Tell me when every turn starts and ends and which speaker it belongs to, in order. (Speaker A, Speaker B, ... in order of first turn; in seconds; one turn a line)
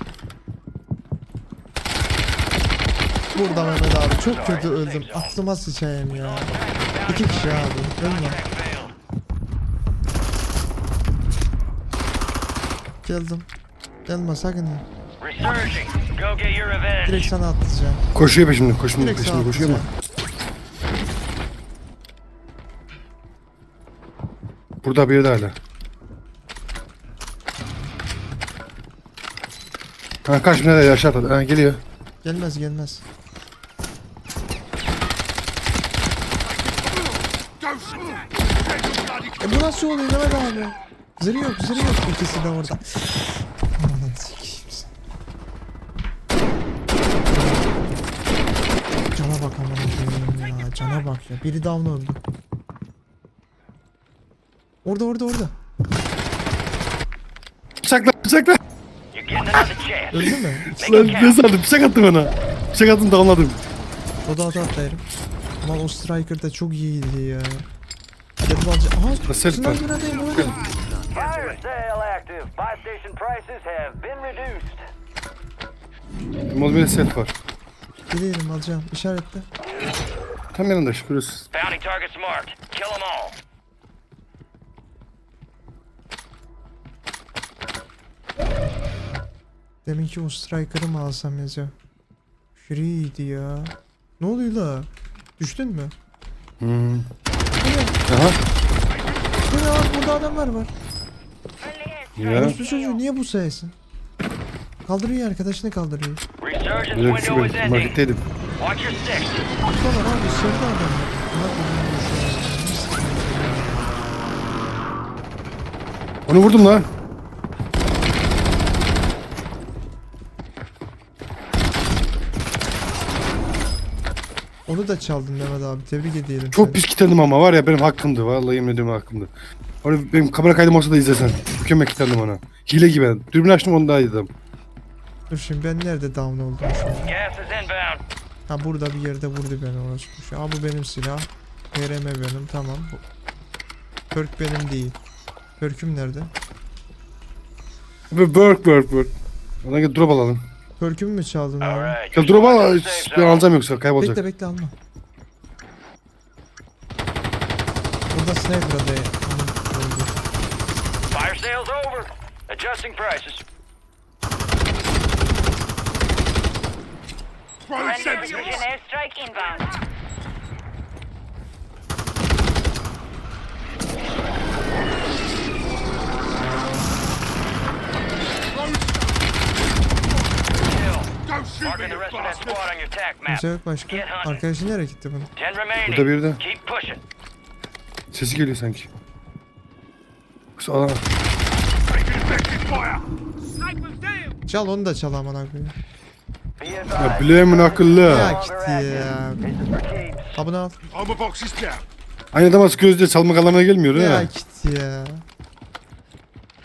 Speaker A: 3.3-6.5
Speaker B: 4.2-5.3
Speaker B: 6.1-8.9
Speaker A: 7.0-8.4
Speaker A: 13.0-13.5
Speaker A: 14.1-14.8
Speaker B: 15.2-17.3
Speaker A: 17.0-18.1
Speaker C: 18.1-19.8
Speaker A: 18.9-19.9
Speaker C: 24.8-25.6
Speaker C: 30.2-31.8
Speaker A: 32.2-33.0
Speaker D: 36.5-39.4
Speaker A: 39.4-44.9
Speaker A: 47.3-47.7
Speaker A: 49.1-52.2
Speaker A: 54.8-55.5
Speaker C: 57.8-58.6
Speaker B: 59.1-61.4
Speaker A: 60.1-61.3
Speaker C: 60.8-63.6
Speaker A: 64.2-65.0
Speaker A: 65.6-67.7
Speaker A: 68.4-70.6
Speaker C: 69.3-69.8
Speaker D: 70.3-71.5
Speaker B: 71.1-74.8
Speaker C: 76.5-77.3
Speaker A: 78.1-79.5
Speaker C: 80.5-81.5
Speaker B: 81.5-83.4
Speaker A: 89.8-91.7
Speaker A: 92.6-95.9
Speaker C: 96.6-97.1
Speaker A: 97.6-98.0
Speaker C: 98.1-98.4
Speaker A: 99.5-100.7
Speaker E: 101.6-103.0
Speaker C: 102.2-102.6
Speaker A: 102.3-103.8
Speaker A: 104.8-106.2
Speaker B: 106.4-108.0
Speaker C: 106.9-108.2
Speaker B: 108.6-109.5
Speaker A: 109.7-113.9
Speaker C: 116.3-116.9
Speaker A: 124.7-126.8
Speaker C: 126.5-129.3
Speaker C: 129.8-134.3
Speaker A: 135.3-137.1
Speaker B: 137.0-138.0
Speaker A: 138.5-143.0
Speaker A: 144.1-145.0
Speaker A: 145.6-146.3
Speaker C: 148.1-149.1
Speaker C: 149.6-150.4
Speaker A: 150.8-152.0
Speaker B: 151.6-153.5
Speaker C: 152.1-154.2
Speaker A: 154.0-154.7
Speaker A: 158.1-160.2
Speaker B: 161.1-163.4
Speaker D: 167.7-168.7
Speaker E: 167.7-169.8
Speaker D: 178.5-179.5
Speaker D: 180.2-180.6
Speaker B: 180.6-184.4
Speaker D: 181.2-182.6
Speaker A: 183.2-185.3
Speaker B: 185.3-187.0
Speaker C: 185.8-186.4
Speaker C: 188.1-188.9
Speaker C: 190.6-191.0
Speaker D: 191.8-193.1
Speaker A: 194.5-195.8
Speaker B: 196.6-200.4
Speaker C: 196.9-198.3
Speaker A: 198.0-199.5
Speaker A: 200.3-200.8
Speaker D: 200.9-201.8
Speaker C: 202.3-204.3
Speaker A: 203.9-205.2